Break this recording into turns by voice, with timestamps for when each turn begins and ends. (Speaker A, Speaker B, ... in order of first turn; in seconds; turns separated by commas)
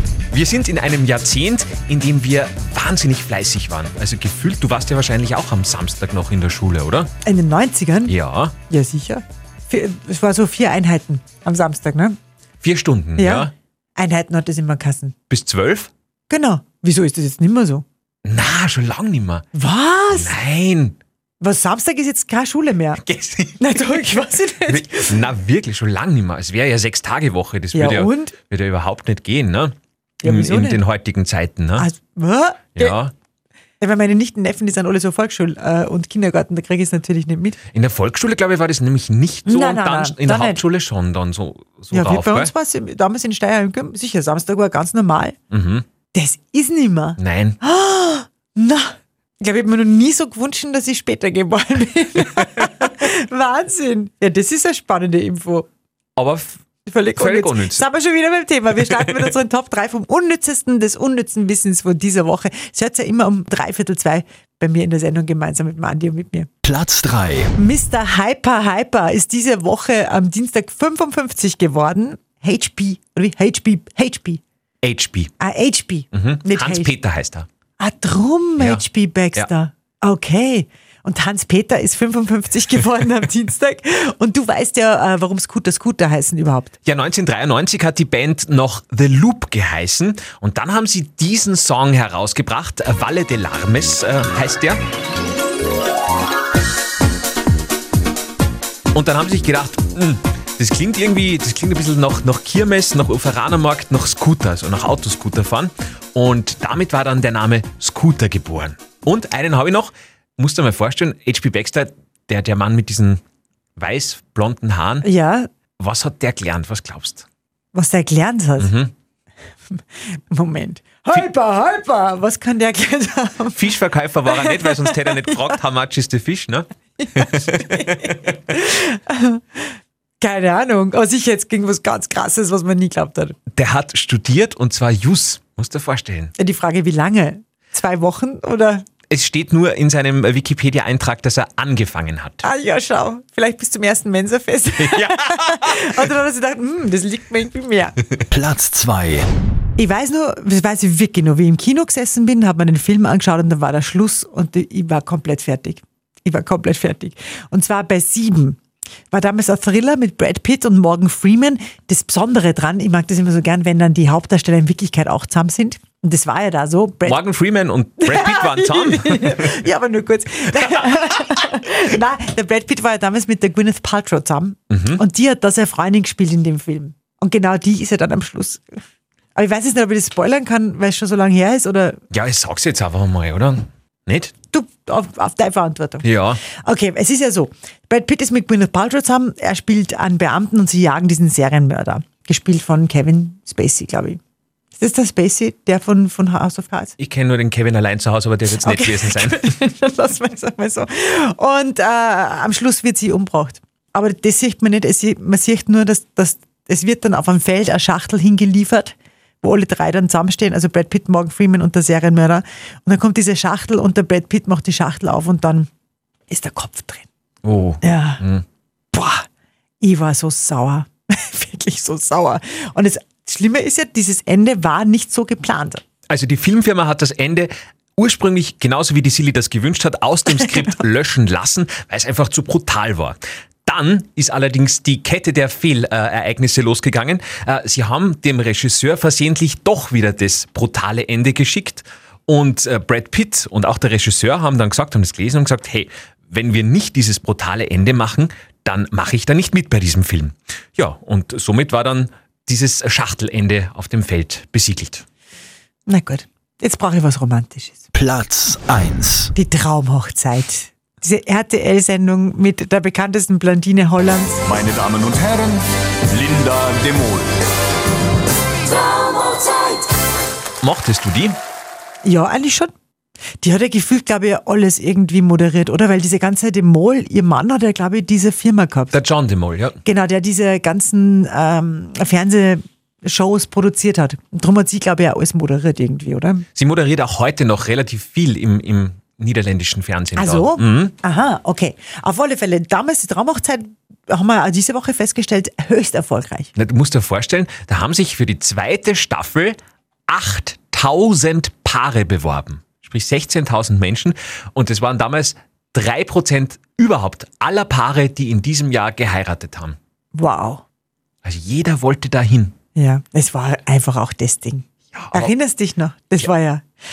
Speaker A: 0.3-7.1, Speaker B: 7.2-8.1, Speaker A: 8.1-8.5, Speaker B: 8.7-12.2, Speaker A: 12.6-13.5, Speaker B: 13.2-15.1, Speaker A: 15.3-15.9, Speaker B: 16.3-17.8, Speaker A: 18.2-19.5, Speaker B: 19.5-20.4, Speaker A: 20.1-21.0, Speaker B: 21.4-23.0, Speaker A: 23.0-23.9, Speaker B: 23.6-25.2, Speaker A: 24.6-31.9, Speaker B: 27.7-28.4, Speaker B: 30.2-30.8, Speaker B: 31.8-33.0, Speaker A: 32.7-33.1, Speaker B: 33.8-37.6, Speaker A: 37.7-42.5, Speaker B: 39.5-40.6, Speaker B: 41.9-45.4, Speaker A: 45.5-45.8, Speaker B: 46.1-55.7, Speaker A: 47.2-47.6, Speaker A: 56.2-56.6, Speaker B: 56.9-66.5, Speaker A: 57.1-57.8, Speaker C: 66.6-67.5, Speaker B: 67.5-74.4, Speaker A: 74.8-75.3, Speaker B: 75.4-76.9, Speaker A: 76.1-77.5, Speaker B: 77.8-86.7, Speaker A: 78.6-78.8, Speaker A: 86.8-94.8, Speaker A: 98.9-113.2, Speaker A: 113.8-115.0, Speaker B: 115.0-115.5, Speaker A: 115.8-117.2, Speaker B: 117.7-118.7, Speaker A: 118.6-118.9, Speaker B: 119.7-123.6, Speaker A: 123.5-128.1, Speaker B: 124.3-125.4, Speaker B: 127.0-133.3, Speaker A: 133.5-136.3, Speaker B: 136.4-138.8, Speaker A: 139.1-142.4, Speaker B: 142.4-147.9, Speaker A: 144.8-146.0, Speaker C: 148.3-149.3, Speaker B: 149.8-158.6, Speaker B: 159.1-167.2, Speaker A: 167.1-169.6, Speaker B: 168.0-178.8, Speaker A: 174.7-175.0, Speaker B: 179.3-182.0, Speaker A: 182.1-184.3, Speaker B: 184.5-194.2, Speaker A: 186.0-186.4, Speaker B: 194.7-196.9, Speaker A: 197.0-199.4, Speaker B: 198.6-215.7, Speaker B: 216.3-217.1, Speaker A: 217.4-218.4, Speaker B: 217.8-218.2, Speaker B: 218.9-219.3, Speaker B: 219.8-225.8, Speaker A: 226.1-255.0, Speaker B: 255.8-257.9, Speaker C: 257.9-259.3, Speaker B: 259.3-264.4, Speaker D: 264.5-267.3, Speaker A: 270.6-271.4, Speaker B: 272.0-272.7, Speaker B: 273.4-279.0, Speaker A: 278.9-279.8, Speaker B: 279.8-286.4, Speaker A: 286.6-290.9, Speaker B: 290.1-296.5, Speaker A: 296.6-299.6, Speaker A: 300.1-309.8, Speaker B: 310.1-310.6, Speaker A: 311.2-312.6, Speaker B: 312.8-316.6, Speaker A: 314.9-315.3